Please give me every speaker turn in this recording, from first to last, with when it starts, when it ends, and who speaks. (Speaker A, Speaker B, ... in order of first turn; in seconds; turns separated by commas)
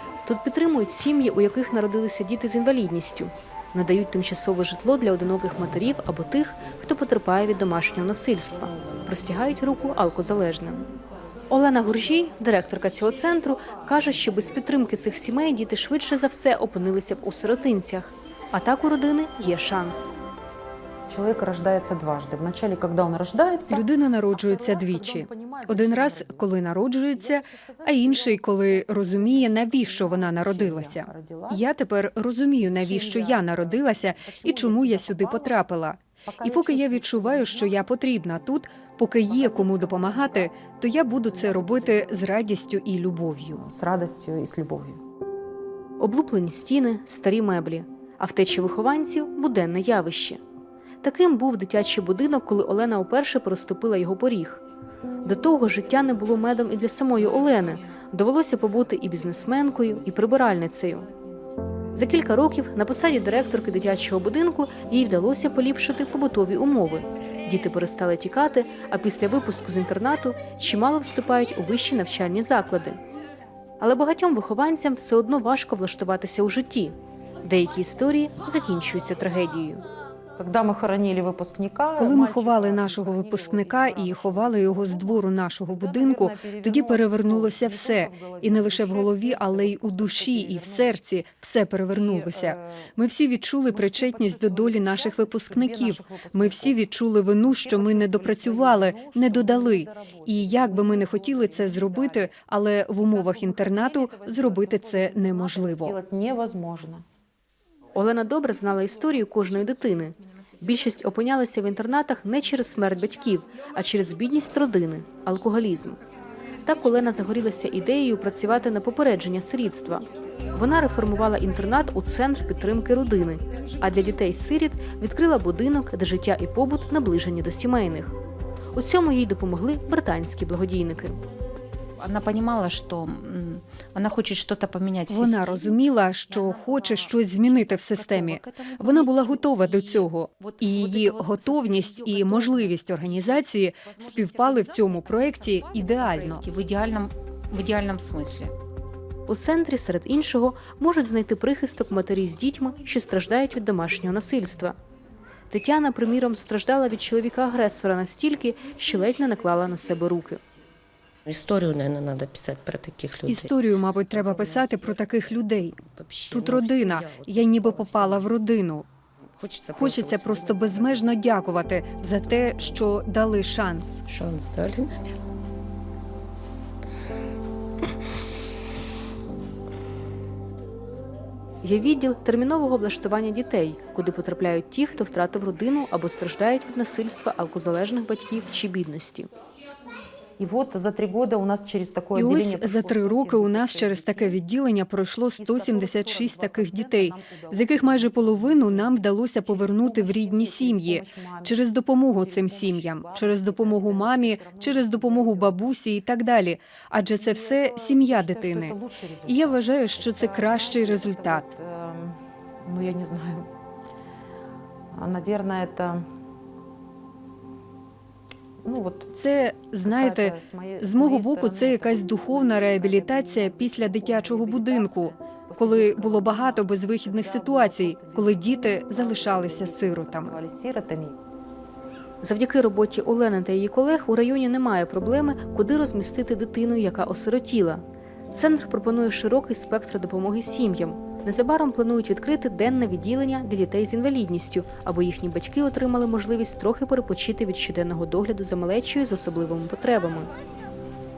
Speaker A: 0.3-10.8, Speaker A: 11.5-20.1, Speaker B: 21.1-31.7, Speaker C: 23.7-43.6, Speaker B: 32.6-35.7, Speaker B: 36.2-38.7, Speaker B: 39.2-40.6, Speaker B: 41.3-42.3, Speaker B: 43.5-45.0, Speaker A: 46.0-50.4, Speaker A: 51.0-54.6, Speaker A: 55.2-61.1, Speaker A: 61.9-73.0, Speaker A: 73.8-79.8, Speaker B: 80.4-91.0, Speaker C: 82.0-106.0, Speaker B: 91.9-92.9, Speaker B: 93.7-96.8, Speaker B: 97.4-102.3, Speaker B: 103.1-107.0, Speaker A: 108.0-116.0, Speaker A: 116.6-128.1, Speaker A: 128.8-131.2, Speaker D: 132.0-142.9, Speaker C: 135.1-146.4, Speaker B: 144.1-145.9, Speaker D: 144.1-148.5, Speaker A: 149.3-154.8, Speaker A: 155.5-160.4, Speaker E: 161.3-163.6, Speaker C: 163.3-165.8, Speaker E: 164.1-168.3, Speaker C: 166.3-168.9, Speaker E: 169.3-171.3, Speaker C: 169.7-174.0, Speaker E: 172.1-172.6, Speaker E: 174.1-174.9, Speaker A: 181.6-189.3, Speaker B: 190.4-194.4, Speaker C: 192.2-211.5, Speaker B: 195.4-201.6, Speaker B: 202.1-205.6, Speaker B: 207.2-213.5, Speaker B: 214.9-216.1, Speaker B: 218.6-219.2, Speaker C: 219.2-230.4, Speaker B: 219.8-231.2, Speaker A: 232.2-250.3